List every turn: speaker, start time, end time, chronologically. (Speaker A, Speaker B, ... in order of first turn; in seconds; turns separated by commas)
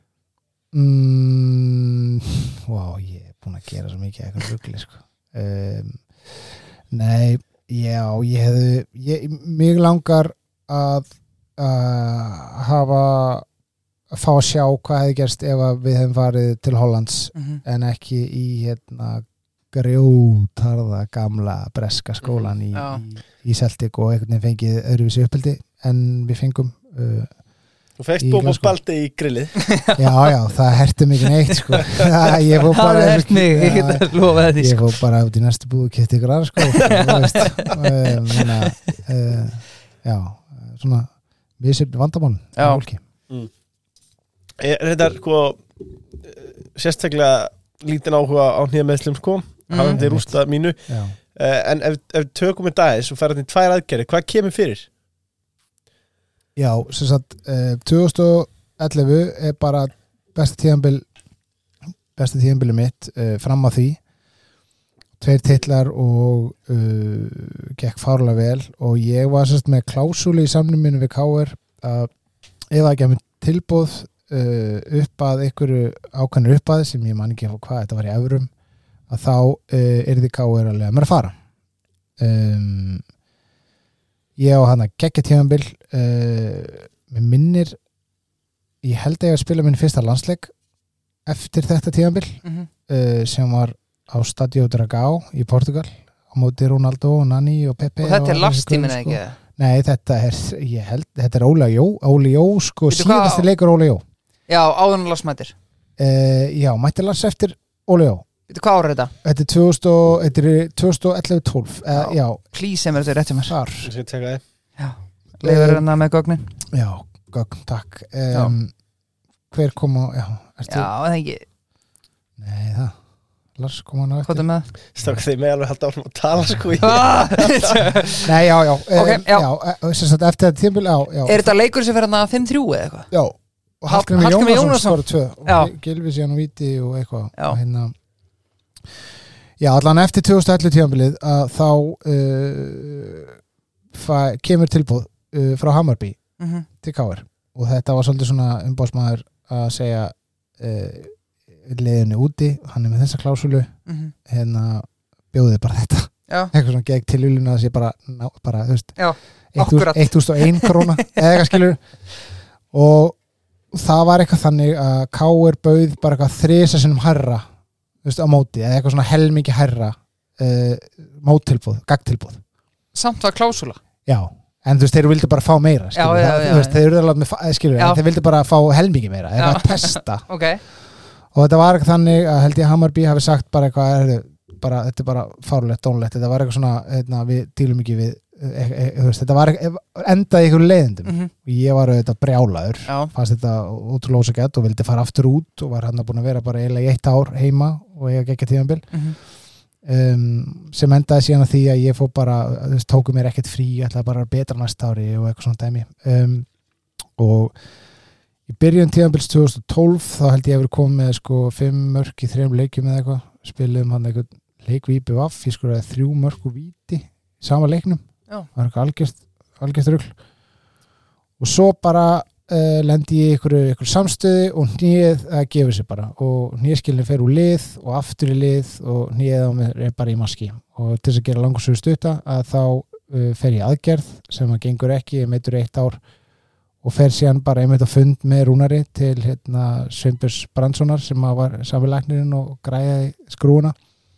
Speaker A: 0.7-13.5, Speaker A: 14.1-27.3, Speaker B: 17.4-17.6, Speaker C: 22.2-22.5, Speaker B: 22.7-23.0, Speaker C: 28.0-29.6, Speaker A: 28.2-28.8, Speaker B: 29.6-30.0, Speaker A: 30.0-43.0, Speaker B: 32.7-34.9, Speaker B: 36.8-38.5, Speaker B: 42.6-42.8, Speaker C: 44.6-50.8, Speaker B: 49.7-50.0, Speaker A: 49.9-50.4, Speaker A: 50.9-51.2, Speaker C: 51.4-54.9, Speaker A: 56.6-61.1, Speaker A: 62.1-64.0, Speaker A: 65.2-72.1, Speaker A: 72.7-78.5, Speaker A: 79.1-81.4, Speaker A: 82.2-83.0, Speaker A: 84.4-87.8, Speaker A: 88.8-90.5, Speaker A: 91.3-104.0, Speaker B: 92.4-92.7, Speaker B: 98.0-99.4, Speaker B: 102.9-103.5, Speaker B: 104.5-105.5, Speaker A: 106.0-108.3, Speaker B: 108.5-109.1, Speaker A: 109.2-112.4, Speaker B: 111.9-113.6, Speaker A: 113.5-113.9, Speaker C: 113.8-114.4, Speaker B: 114.8-116.5, Speaker A: 115.4-115.9, Speaker A: 116.7-118.7, Speaker A: 119.5-120.9, Speaker B: 120.7-121.5, Speaker A: 122.4-123.0, Speaker A: 123.6-124.5, Speaker B: 124.2-124.7, Speaker C: 124.9-127.8, Speaker B: 126.8-128.3, Speaker A: 128.2-131.5, Speaker B: 128.9-129.5, Speaker B: 131.2-133.1, Speaker A: 133.1-137.9, Speaker B: 133.9-135.7, Speaker A: 139.6-143.4, Speaker A: 143.9-146.2, Speaker B: 146.4-146.7, Speaker A: 146.8-153.7, Speaker B: 153.9-154.1, Speaker A: 154.3-159.0, Speaker B: 156.3-156.5, Speaker B: 159.0-161.1, Speaker A: 159.5-161.8, Speaker A: 162.7-163.2, Speaker A: 163.7-167.4, Speaker A: 168.0-172.4, Speaker B: 172.9-173.8, Speaker A: 174.1-180.2, Speaker B: 176.0-176.8, Speaker B: 179.4-180.6, Speaker A: 181.3-199.0, Speaker B: 191.1-191.3, Speaker B: 192.9-193.1, Speaker B: 198.9-199.2, Speaker A: 199.8-206.5, Speaker A: 207.2-207.6, Speaker A: 208.5-218.0, Speaker A: 218.6-220.2, Speaker A: 221.4-236.0, Speaker A: 236.8-243.8